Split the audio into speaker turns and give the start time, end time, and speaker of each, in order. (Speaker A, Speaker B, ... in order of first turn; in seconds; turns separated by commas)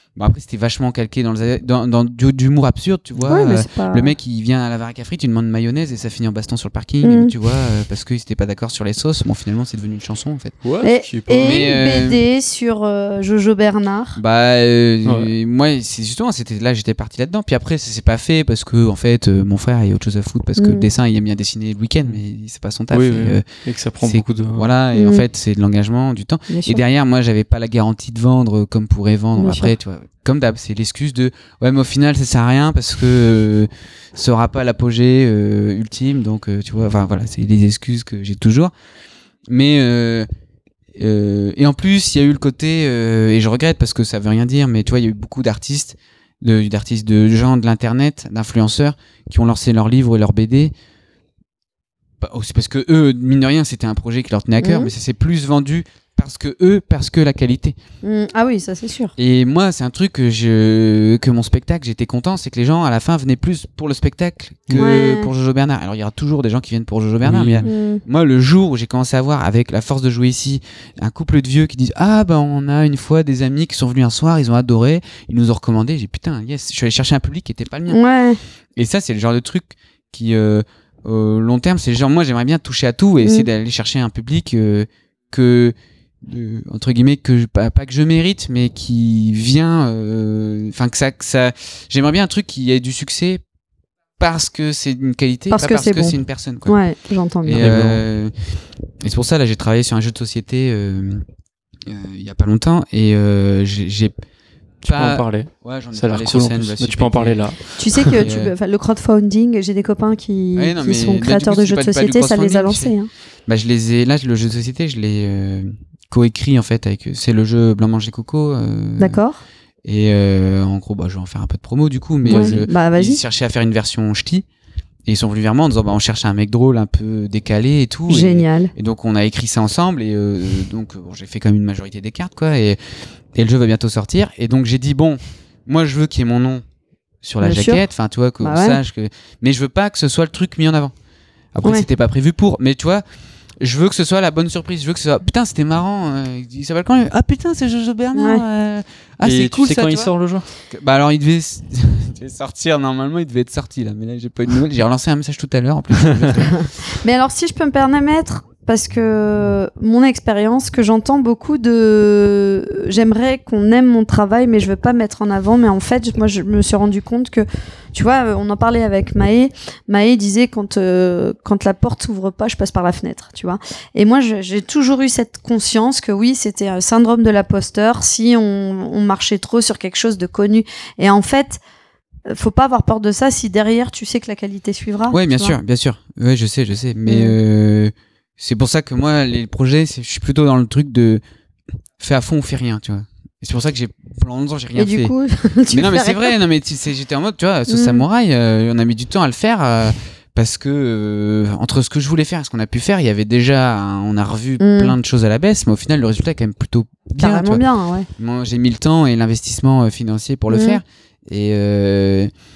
Speaker A: 0.2-10.6, Speaker B: 3.3-4.1, Speaker B: 7.0-7.3, Speaker C: 10.6-11.7, Speaker B: 10.8-14.2, Speaker A: 11.3-12.2, Speaker A: 14.2-23.4, Speaker C: 15.1-15.3, Speaker B: 20.6-20.9, Speaker C: 22.9-24.7, Speaker A: 24.0-38.7, Speaker B: 24.9-25.2, Speaker B: 26.5-26.8, Speaker B: 29.4-29.7, Speaker A: 39.5-40.3, Speaker A: 41.0-50.7, Speaker A: 52.2-57.8, Speaker B: 54.6-54.9, Speaker B: 58.0-59.1, Speaker A: 59.2-78.0, Speaker B: 64.8-65.3, Speaker C: 67.2-67.7, Speaker B: 67.7-68.0, Speaker B: 77.9-78.4, Speaker A: 78.8-93.4, Speaker B: 83.2-83.5, Speaker A: 94.2-96.8, Speaker B: 95.5-97.7, Speaker A: 97.5-98.3, Speaker C: 97.5-98.0, Speaker A: 99.0-101.2, Speaker A: 101.8-104.1, Speaker A: 104.8-108.5, Speaker C: 104.8-108.2, Speaker B: 107.8-113.1, Speaker A: 110.6-112.9, Speaker A: 113.5-119.2, Speaker B: 119.0-119.4, Speaker A: 119.8-124.5, Speaker B: 122.2-123.2, Speaker C: 122.3-122.6, Speaker A: 125.1-132.8, Speaker B: 128.1-128.7, Speaker A: 133.3-136.6, Speaker A: 137.2-140.9, Speaker B: 137.4-137.8, Speaker B: 138.4-138.8, Speaker A: 141.5-143.0, Speaker A: 143.6-150.1, Speaker B: 148.1-148.4, Speaker C: 149.2-150.5, Speaker A: 150.7-156.7, Speaker B: 156.9-181.6, Speaker B: 182.3-185.6, Speaker A: 185.1-191.2, Speaker B: 187.1-187.4, Speaker A: 192.0-195.1, Speaker B: 194.8-196.3, Speaker A: 195.7-207.6, Speaker B: 197.7-198.0, Speaker B: 204.6-205.0, Speaker B: 207.2-208.1, Speaker A: 208.2-212.3, Speaker B: 210.5-210.8